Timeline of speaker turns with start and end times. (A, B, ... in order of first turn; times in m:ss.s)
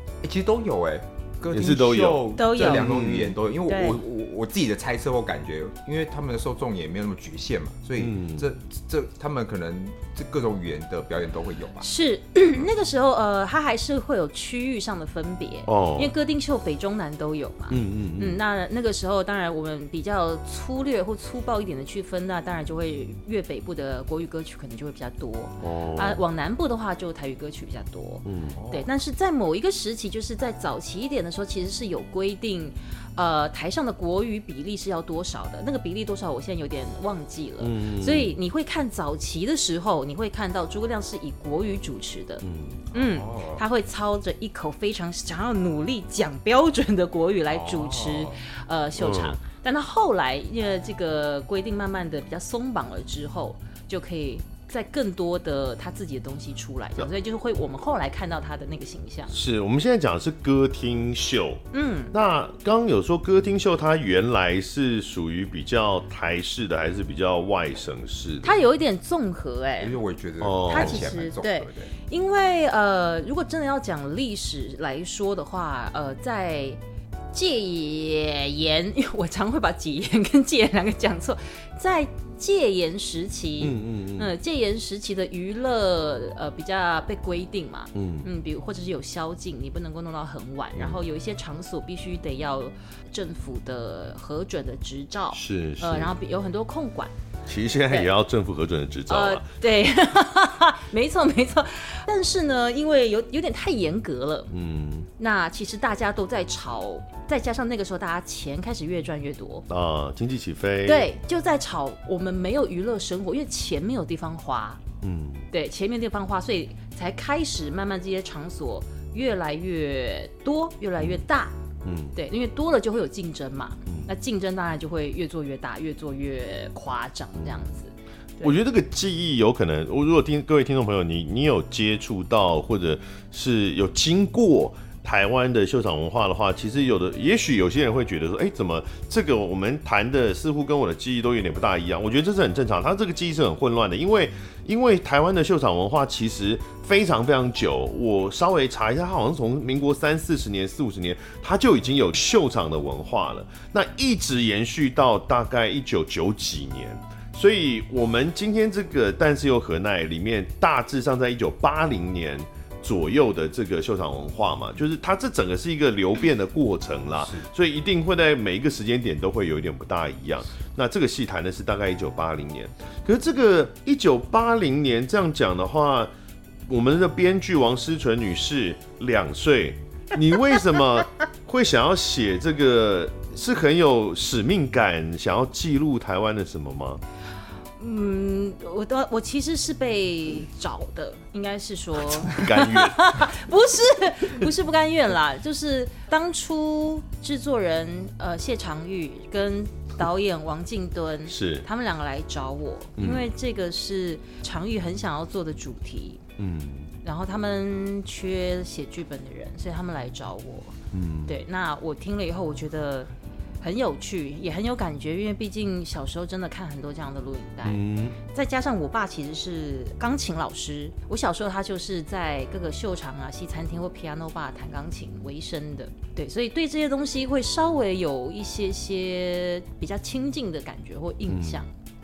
0:00.2-0:11.9 A
0:01.5-0:03.4 B
0:02.4-0:02.9 C
0:03.7-0:04.0 C
0:08.0-0:08.5 B
0:11.8-0:59.4 C
0:15.7-0:16.1 B
0:17.7-0:18.4 B
0:25.6-0:26.2 B
0:28.2-0:28.6 B
0:28.6-0:28.9 A
0:37.6-0:38.4 B
0:42.4-0:42.9 B
0:42.9-0:43.6 A
0:47.5-0:48.4 A
0:49.0-0:49.4 B
0:59.3-1:08.6 B
1:01.7-1:02.1 C
1:08.4-1:10.0 C
1:09.8-1:11.9 A
1:10.4-1:11.1 B
1:10.7-1:16.8 C
1:17.3-1:37.1 C
1:23.6-1:24.3 B
1:28.0-1:28.3 B
1:35.3-1:36.1 B
1:37.5-1:39.5 B
1:39.1-1:44.5 C
1:44.5-1:45.1 B
1:45.2-1:49.7 C
1:49.7-1:51.1 B
1:50.8-1:54.8 C
1:55.0-1:55.5 B
1:55.5-2:01.5 C
2:01.8-2:02.2 B
2:02.1-2:08.6 C
2:08.4-2:56.1 B
2:56.7-3:07.0 B
3:07.8-3:26.2 C
3:12.1-3:13.1 B
3:21.3-3:21.7 B
3:23.0-3:23.3 B
3:26.4-3:26.9 B
3:27.0-3:30.8 C
3:30.9-3:31.4 B
3:31.3-3:33.1 C
3:33.6-3:51.7 C
3:37.6-3:38.2 B
3:51.3-3:51.6 B